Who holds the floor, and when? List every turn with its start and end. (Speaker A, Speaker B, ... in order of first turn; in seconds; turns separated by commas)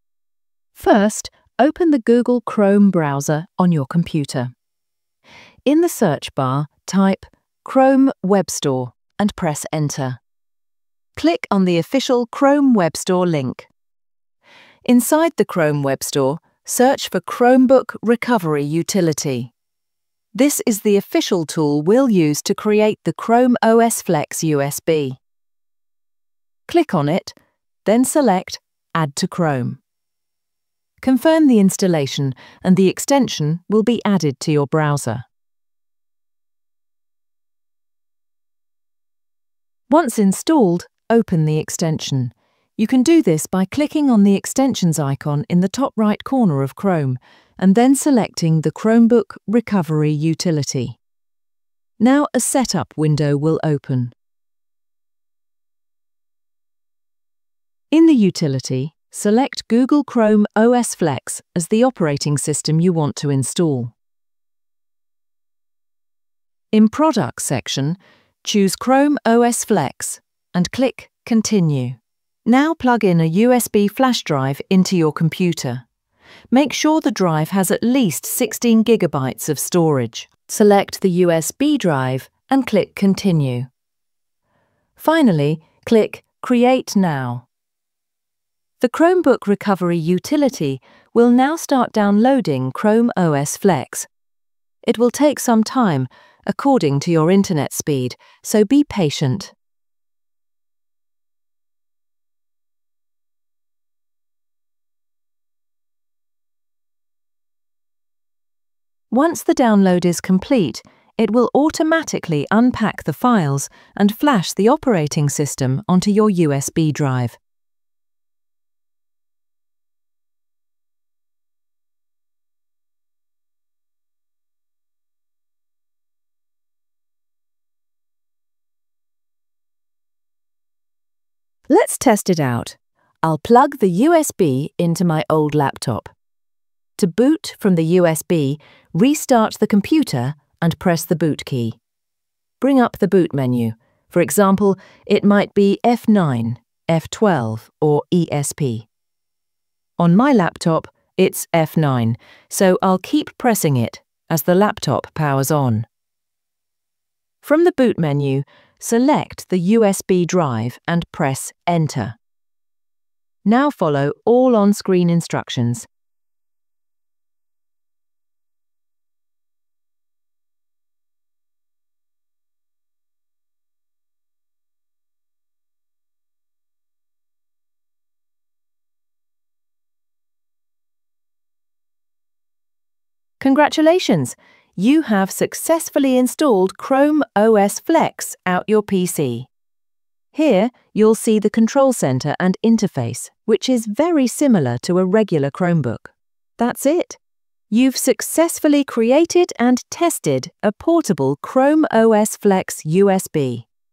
Speaker A: 0.8-4.5, Speaker A: 5.7-10.2, Speaker A: 11.2-13.7, Speaker A: 14.8-19.5, Speaker A: 20.3-25.2, Speaker A: 26.7-29.8, Speaker A: 31.0-35.2, Speaker A: 39.9-51.0, Speaker A: 52.0-54.1, Speaker A: 57.9-63.9, Speaker A: 66.7-75.8, Speaker A: 76.5-83.7, Speaker A: 85.0-87.5, Speaker A: 88.8-94.1, Speaker A: 94.8-99.5, Speaker A: 109.1-117.4, Speaker A: 131.7-136.1, Speaker A: 137.0-141.8, Speaker A: 142.6-148.9, Speaker A: 150.0-155.9, Speaker A: 157.4-162.2, Speaker A: 163.4-165.9, Speaker A: 183.4-189.5, Speaker A: 190.3-197.2, Speaker A: 197.7-203.7